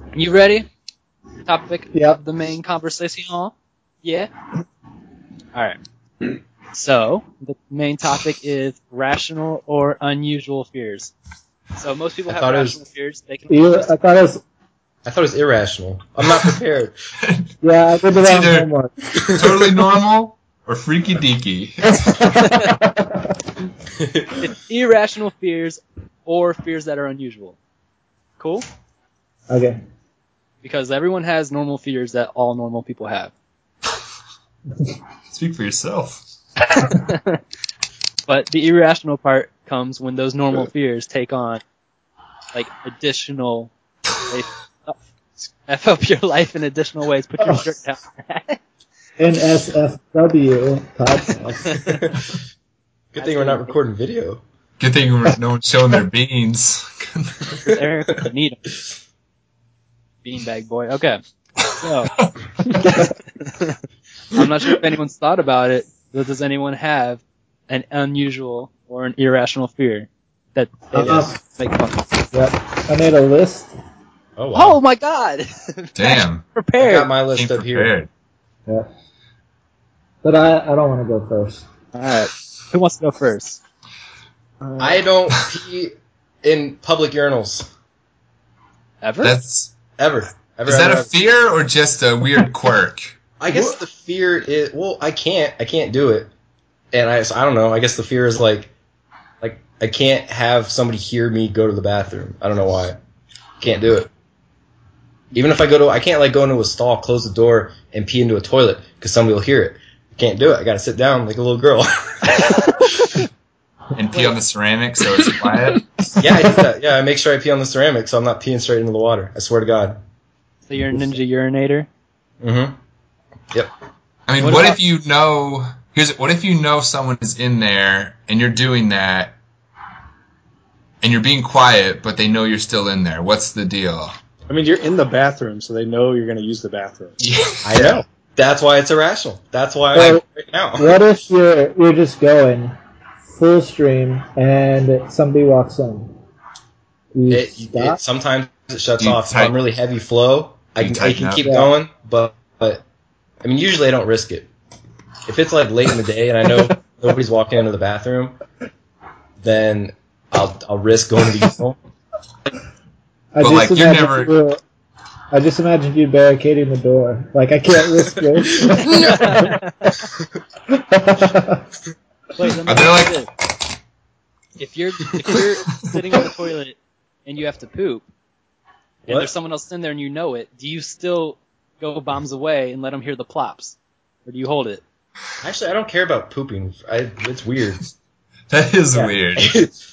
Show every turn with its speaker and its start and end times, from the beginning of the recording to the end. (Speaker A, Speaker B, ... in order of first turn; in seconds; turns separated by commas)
Speaker A: 0.1-0.7, Speaker A: 1.5-4.3, Speaker B: 1.9-2.2, Speaker A: 6.7-11.1, Speaker A: 11.8-14.0, Speaker C: 12.3-12.8, Speaker B: 13.5-14.4, Speaker C: 15.1-16.9, Speaker B: 17.6-18.9, Speaker D: 18.1-18.7, Speaker D: 19.2-22.1, Speaker B: 22.0-23.2, Speaker A: 24.4-27.6, Speaker A: 28.4-28.6, Speaker B: 29.5-29.8, Speaker A: 30.6-33.3, Speaker D: 35.3-36.2, Speaker A: 36.8-37.4, Speaker A: 38.3-41.6, Speaker A: 42.5-43.7, Speaker A: 44.3-48.6, Speaker B: 47.4-47.7, Speaker B: 49.2-51.9, Speaker C: 53.1-54.4, Speaker A: 53.2-53.8, Speaker D: 54.8-57.5, Speaker A: 57.6-58.6, Speaker A: 60.2-61.2, Speaker A: 61.7-62.1, Speaker A: 63.4-63.8, Speaker A: 64.3-72.0, Speaker B: 71.0-71.4, Speaker B: 72.3-73.7, Speaker C: 74.4-74.8, Speaker A: 74.5-77.1, Speaker D: 76.0-76.5, Speaker C: 76.8-77.9, Speaker D: 77.3-78.1, Speaker B: 80.2-81.7, Speaker A: 81.9-83.6, Speaker E: 84.6-85.0, Speaker C: 84.8-87.7, Speaker A: 89.0-89.3, Speaker D: 89.2-89.7, Speaker C: 90.0-91.1, Speaker D: 90.7-93.2, Speaker C: 93.4-96.3, Speaker C: 96.9-98.7, Speaker C: 99.4-103.0, Speaker C: 103.6-104.1, Speaker C: 105.3-112.8, Speaker D: 114.0-116.0, Speaker C: 116.2-120.0, Speaker A: 120.7-121.9, Speaker C: 122.4-122.8, Speaker D: 124.3-129.4, Speaker E: 124.4-124.8, Speaker D: 131.0-134.2, Speaker E: 134.5-137.2, Speaker D: 137.2-138.0, Speaker C: 137.6-141.0, Speaker B: 139.9-140.2, Speaker B: 140.8-142.8, Speaker B: 143.3-146.2, Speaker B: 147.1-148.0, Speaker C: 147.3-152.8, Speaker D: 149.0-149.6, Speaker D: 150.8-151.4, Speaker B: 151.4-151.7, Speaker C: 153.4-154.5, Speaker C: 155.3-158.4, Speaker C: 159.4-161.8, Speaker B: 163.3-164.6, Speaker D: 163.4-164.3, Speaker B: 165.3-169.6, Speaker A: 169.0-170.0, Speaker B: 170.7-171.6, Speaker A: 172.4-173.3, Speaker D: 172.7-173.2, Speaker A: 174.6-178.1, Speaker C: 179.1-179.3, Speaker A: 179.1-184.8, Speaker C: 185.4-187.8, Speaker D: 188.5-189.6, Speaker C: 188.9-189.8